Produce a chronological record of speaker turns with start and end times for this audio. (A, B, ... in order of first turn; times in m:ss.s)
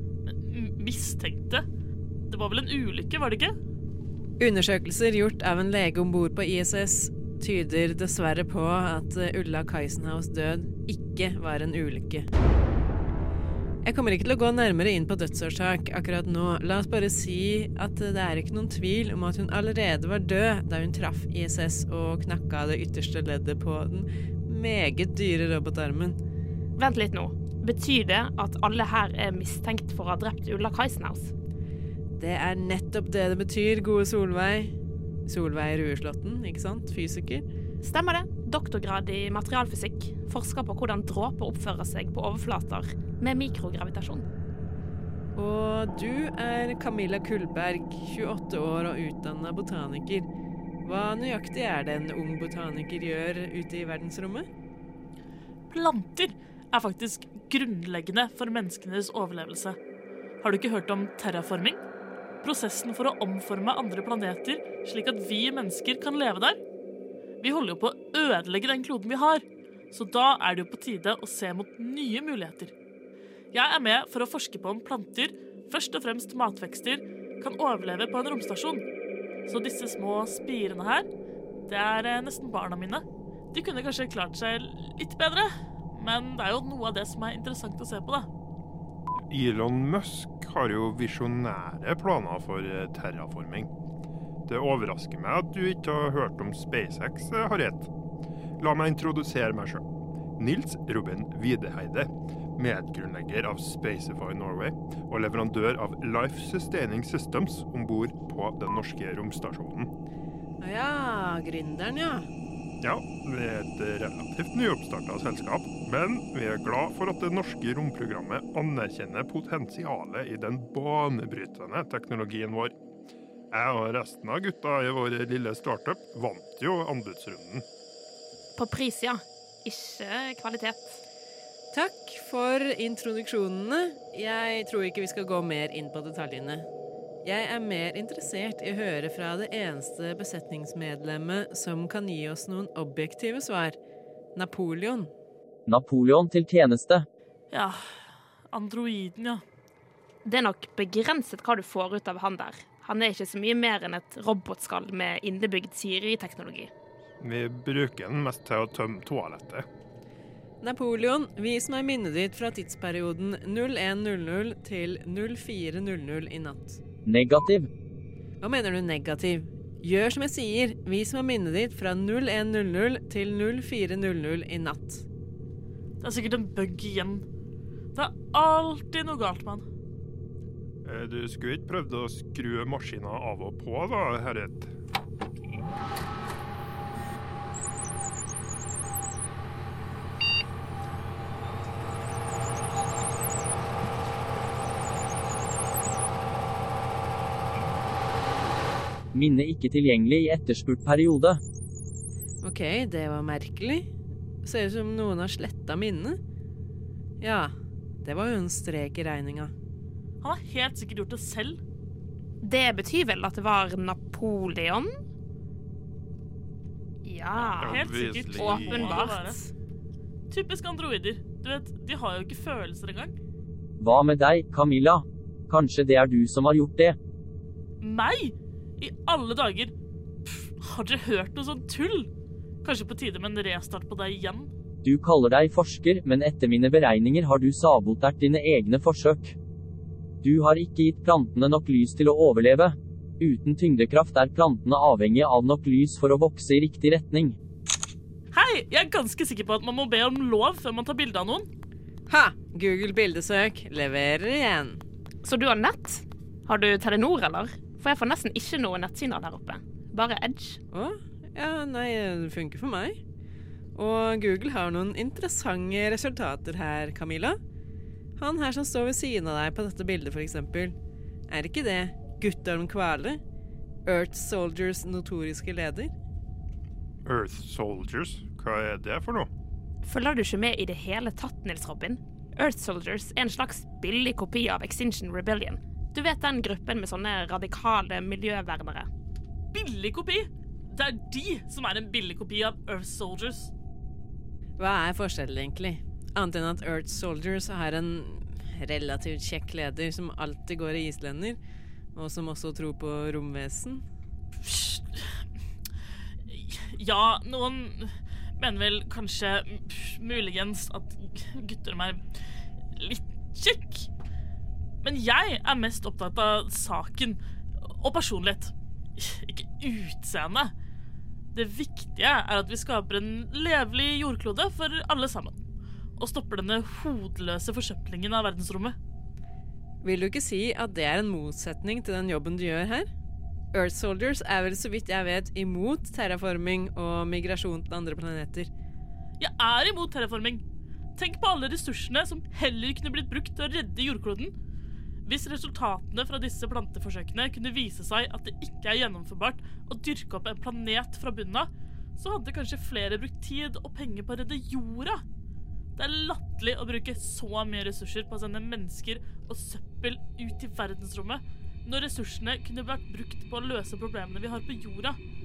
0:00.2-0:01.6 A
0:02.3-0:03.5 A
0:04.4-0:12.3 B
0:13.8-0:26.2 B
0:26.8-0:31.3 C
0:32.2-0:34.7 B
0:35.3-0:37.4 B
0:37.8-0:44.2 C
0:45.4-0:50.3 B
0:50.8-0:54.5 B
0:55.7-0:59.8 A
1:00.4-1:01.8 A
1:02.4-1:06.6 A
1:07.4-1:12.7 A
1:13.5-1:18.8 A
1:19.5-1:21.1 A
1:21.7-1:28.3 A
1:29.3-1:33.7 D
1:34.5-1:37.9 D
1:38.6-1:39.8 D
1:40.4-1:49.9 D
1:50.6-1:52.3 B
1:52.8-2:02.7 D
2:03.5-2:07.6 D
2:08.6-2:11.0 C
2:11.7-2:16.7 B
2:17.2-2:23.8 B
2:24.4-2:25.1 B
2:25.7-2:27.0 E
2:27.5-2:29.4 A
2:30.2-2:36.7 C
2:37.2-2:39.6 D
2:40.6-2:46.8 B
2:47.0-2:47.7 E
2:48.4-2:55.0 B
2:56.0-2:57.2 A
2:57.9-2:59.6 A
3:00.8-3:04.7 D
3:19.1-3:21.4 E
3:22.4-3:23.9 B
3:24.4-3:26.2 B
3:27.2-3:29.5 B
3:30.2-3:31.6 A
3:32.4-3:34.9 C
3:37.0-3:39.5 C
3:37.4-3:39.4 A
3:37.6-3:39.1 D
3:40.3-3:43.1 A
3:43.8-3:47.0 E
3:47.8-3:49.7 A
3:50.2-3:52.1 A
3:52.6-3:54.5 A
3:54.8-3:59.4 E
4:00.2-4:07.4 E
4:08.3-4:11.5 A
4:12.1-4:14.8 B
4:15.2-4:20.6 C
4:20.7-4:23.0 B
4:23.7-4:27.4 B
4:28.2-4:30.7 B
4:31.3-4:33.2 B
4:33.8-4:35.9 B
4:37.0-4:39.3 D
4:39.8-4:48.9 C
4:49.5-4:53.5 A
4:54.6-5:01.4 B
5:01.9-5:03.8 B
5:04.4-5:05.2 A
5:06.3-5:12.2 A
5:12.7-5:13.9 A
5:14.8-5:20.5 A
5:21.3-5:25.4 A
5:26.0-5:28.8 A
5:29.8-5:32.9 B
5:33.5-5:38.5 B
5:39.2-5:40.4 A
5:41.0-5:44.3 A
5:45.0-5:55.0 A
5:55.8-6:05.0 A